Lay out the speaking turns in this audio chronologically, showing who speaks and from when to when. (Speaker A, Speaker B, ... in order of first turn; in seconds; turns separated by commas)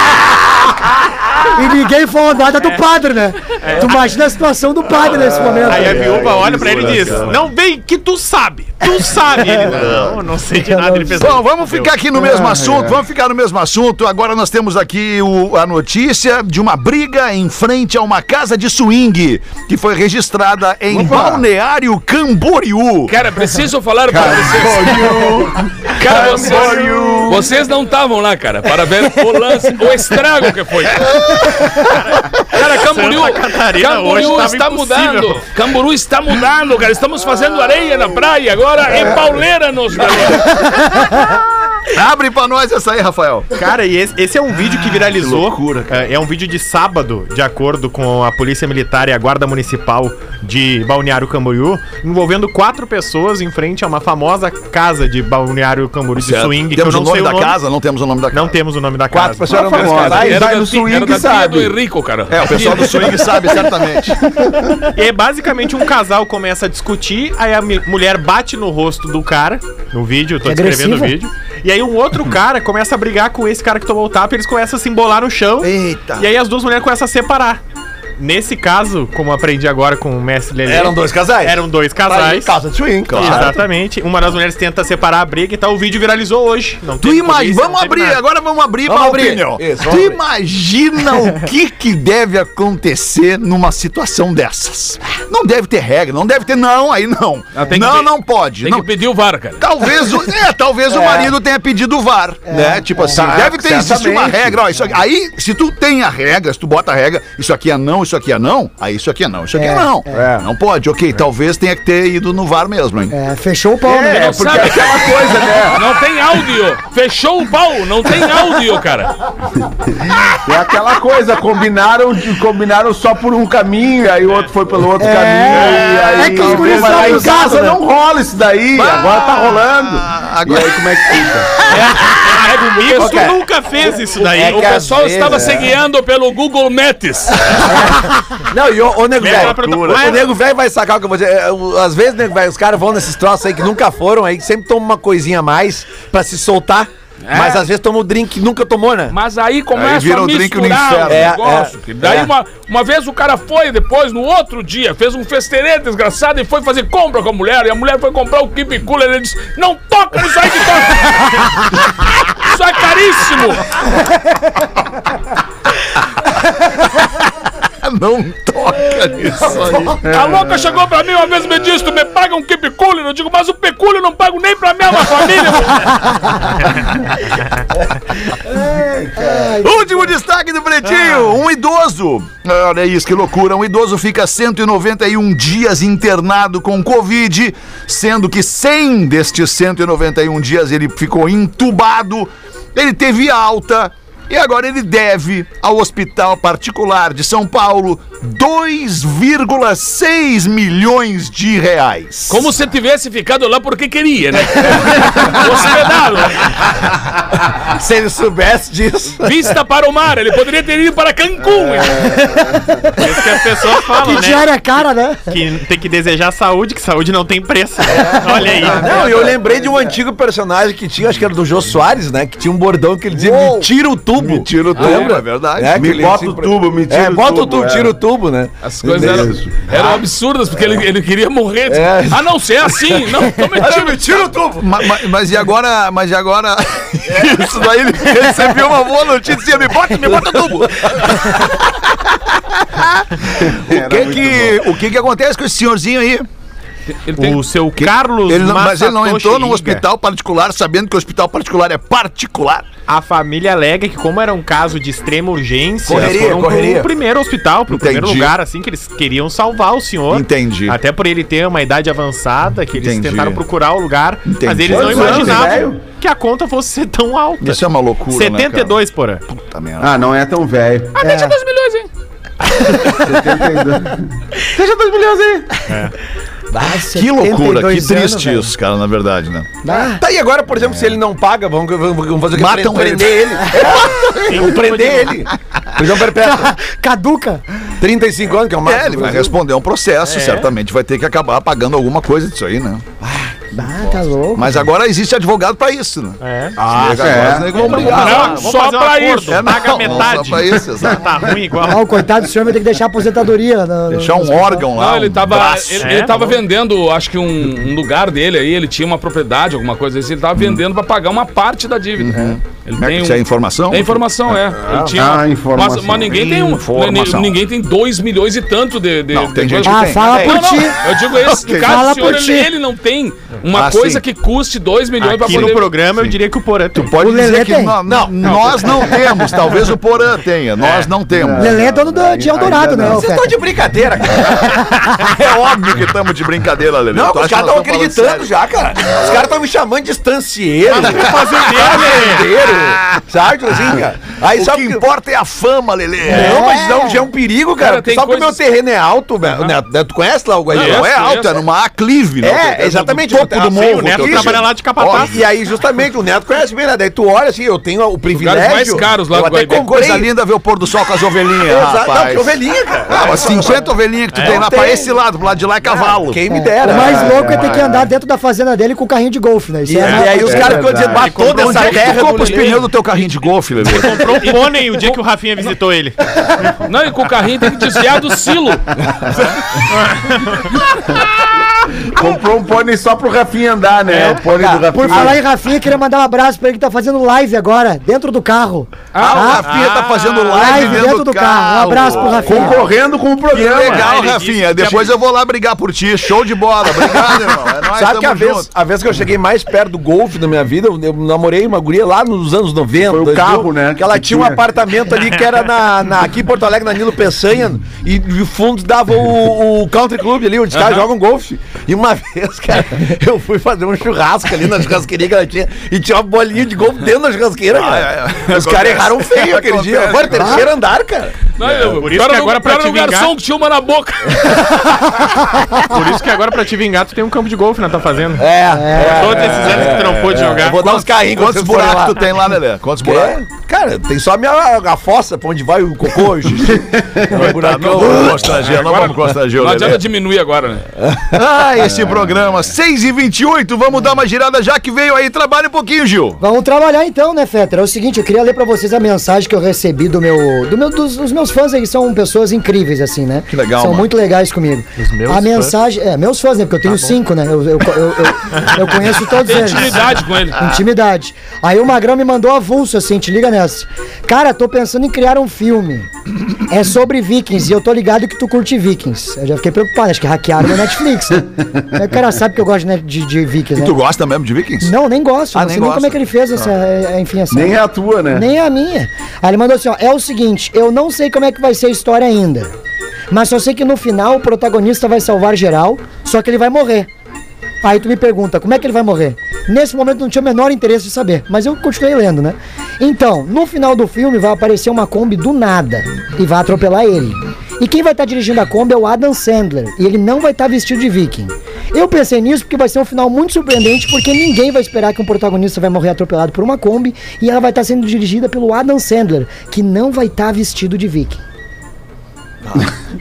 Speaker A: 1.5-6.5, Speaker B: 3.6-4.0, Speaker C: 5.1-7.3, Speaker B: 5.7-11.9, Speaker D: 9.6-10.2, Speaker A: 10.6-11.2, Speaker D: 11.2-23.2, Speaker C: 12.2-13.0, Speaker C: 20.9-21.4, Speaker E: 23.1-25.4, Speaker C: 24.1-27.5, Speaker D: 25.1-25.5, Speaker E: 25.9-31.9, Speaker D: 26.1-27.5, Speaker E: 32.4-40.8, Speaker B: 32.5-35.5, Speaker D: 41.9-43.5, Speaker B: 43.6-57.6, Speaker D: 44.6-46.1, Speaker D: 56.2-58.6, Speaker B: 58.3-60.3, Speaker F: 59.1-60.6, Speaker C: 59.5-61.8, Speaker E: 60.0-63.1, Speaker D: 62.3-64.3, Speaker B: 64.9-77.6, Speaker A: 70.4-71.2, Speaker F: 75.7-76.2, Speaker D: 75.7-76.2, Speaker B: 78.2-82.5, Speaker F: 80.7-83.6, Speaker D: 83.1-83.6, Speaker B: 83.1-88.2, Speaker D: 87.0-98.9, Speaker F: 88.9-90.2, Speaker E: 97.5-99.6, Speaker D: 99.6-113.1, Speaker A: 102.5-103.2, Speaker C: 103.0-104.6, Speaker A: 109.5-110.2, Speaker C: 110.1-110.5, Speaker A: 113.1-114.5, Speaker C: 113.8-115.8, Speaker E: 114.1-119.1, Speaker C: 119.6-131.6, Speaker A: 125.0-127.8, Speaker D: 125.5-127.6, Speaker F: 128.8-129.2, Speaker D: 128.9-130.8, Speaker B: 131.8-134.7, Speaker E: 132.3-133.3, Speaker F: 133.0-133.4, Speaker F: 134.2-135.7, Speaker E: 134.2-137.5, Speaker F: 138.5-149.2, Speaker B: 139.2-140.3, Speaker D: 139.2-140.2, Speaker E: 147.3-147.7, Speaker E: 149.1-161.8, Speaker D: 149.7-151.3, Speaker F: 151.1-152.3, Speaker E: 162.3-163.8, Speaker D: 167.0-170.0, Speaker E: 170.1-176.2, Speaker C: 178.5-179.6, Speaker A: 179.2-179.8, Speaker D: 179.6-202.6, Speaker E: 202.3-206.7, Speaker F: 207.6-209.4, Speaker E: 209.2-212.3, Speaker C: 212.0-212.8, Speaker A: 212.2-212.6, Speaker B: 213.0-214.5, Speaker A: 213.9-215.3, Speaker B: 215.3-219.1, Speaker F: 217.9-230.0, Speaker C: 219.1-219.6, Speaker D: 223.1-225.9, Speaker E: 224.7-225.2, Speaker C: 225.7-227.9, Speaker E: 228.6-234.2, Speaker C: 229.0-229.7, Speaker F: 231.7-232.3, Speaker F: 233.6-234.7, Speaker D: 234.6-246.3, Speaker F: 240.1-241.1, Speaker C: 243.4-244.6, Speaker E: 246.9-247.4, Speaker B: 247.2-249.8, Speaker D: 247.8-252.7, Speaker B: 252.9-269.2, Speaker F: 255.8-256.9, Speaker D: 257.7-258.4, Speaker D: 260.1-260.8, Speaker D: 262.7-263.4, Speaker D: 264.3-265.6, Speaker C: 264.7-265.8, Speaker D: 267.4-268.8, Speaker D: 269.3-269.9, Speaker C: 269.8-271.0, Speaker E: 271.0-271.9, Speaker A: 271.0-271.4, Speaker C: 272.8-274.1, Speaker F: 274.6-275.4, Speaker C: 274.6-275.4, Speaker B: 275.7-275.9, Speaker F: 276.5-276.9, Speaker A: 276.6-278.5, Speaker D: 276.9-279.6, Speaker A: 279.6-280.0, Speaker F: 279.7-286.5, Speaker D: 282.3-283.6, Speaker B: 284.2-285.1, Speaker A: 286.2-287.4, Speaker F: 287.8-289.3, Speaker D: 288.6-292.9, Speaker B: 290.1-290.5, Speaker F: 293.0-293.3, Speaker A: 293.5-294.6, Speaker D: 294.4-298.5, Speaker B: 296.2-296.6, Speaker C: 296.6-297.9, Speaker B: 297.5-302.0, Speaker E: 297.9-299.5, Speaker D: 299.3-301.1, Speaker A: 301.6-304.7, Speaker D: 303.9-306.1, Speaker E: 304.8-325.7, Speaker B: 305.8-306.4, Speaker D: 310.4-310.6, Speaker D: 312.0-314.0, Speaker C: 314.8-316.1, Speaker D: 316.0-317.4, Speaker D: 319.1-320.4, Speaker A: 319.6-320.8, Speaker F: 320.0-320.6, Speaker A: 321.3-322.5, Speaker D: 321.5-321.8, Speaker D: 323.5-324.0, Speaker B: 325.0-326.9, Speaker D: 325.3-326.2, Speaker D: 326.7-331.6, Speaker A: 326.9-327.8, Speaker F: 327.9-328.9, Speaker C: 331.1-333.0, Speaker A: 331.4-333.4, Speaker F: 332.8-334.7, Speaker A: 334.3-335.0, Speaker D: 335.0-339.2, Speaker F: 336.9-344.8, Speaker B: 340.7-342.3, Speaker D: 342.4-343.1, Speaker D: 344.3-346.4, Speaker A: 346.1-347.0, Speaker F: 346.1-351.0, Speaker E: 347.6-348.4, Speaker E: 350.5-351.4, Speaker D: 350.5-355.2, Speaker F: 352.2-360.1, Speaker B: 353.5-355.2, Speaker E: 358.1-359.7, Speaker D: 359.6-362.3, Speaker F: 361.4-365.0, Speaker D: 362.9-366.2, Speaker B: 364.1-364.4, Speaker F: 365.6-367.7, Speaker A: 366.3-370.7, Speaker C: 366.7-367.9, Speaker F: 369.6-372.6, Speaker C: 370.1-371.4, Speaker B: 370.9-372.2, Speaker D: 371.4-374.1, Speaker E: 372.2-372.5, Speaker B: 373.6-376.5, Speaker E: 374.7-375.0, Speaker E: 376.6-378.8, Speaker B: 379.8-380.4, Speaker C: 381.9-385.2, Speaker B: 383.9-384.2, Speaker F: 384.3-385.1, Speaker A: 384.7-389.5, Speaker E: 388.9-389.4, Speaker D: 389.0-392.5, Speaker B: 389.4-390.9, Speaker A: 390.3-392.7, Speaker C: 392.2-393.9, Speaker D: 393.3-398.5, Speaker B: 393.5-394.9, Speaker F: 397.7-421.2, Speaker C: 402.8-404.4, Speaker E: 410.5-410.8, Speaker D: 417.5-420.5, Speaker E: 421.4-424.8, Speaker B: 421.6-423.1, Speaker B: 425.6-430.6, Speaker F: 428.2-432.0, Speaker A: 428.5-429.2, Speaker D: 430.6-433.2, Speaker F: 432.8-438.4, Speaker C: 436.5-437.1, Speaker D: 437.1-439.8, Speaker E: 438.4-440.7, Speaker D: 441.1-446.2, Speaker A: 446.2-473.8, Speaker D: 453.3-453.9, Speaker B: 454.8-455.6, Speaker B: 456.7-456.9, Speaker E: 459.1-460.4, Speaker D: 473.6-474.7, Speaker A: 474.6-482.5, Speaker D: 475.3-476.5, Speaker C: 477.3-478.3, Speaker A: 483.1-486.9, Speaker A: 487.6-511.2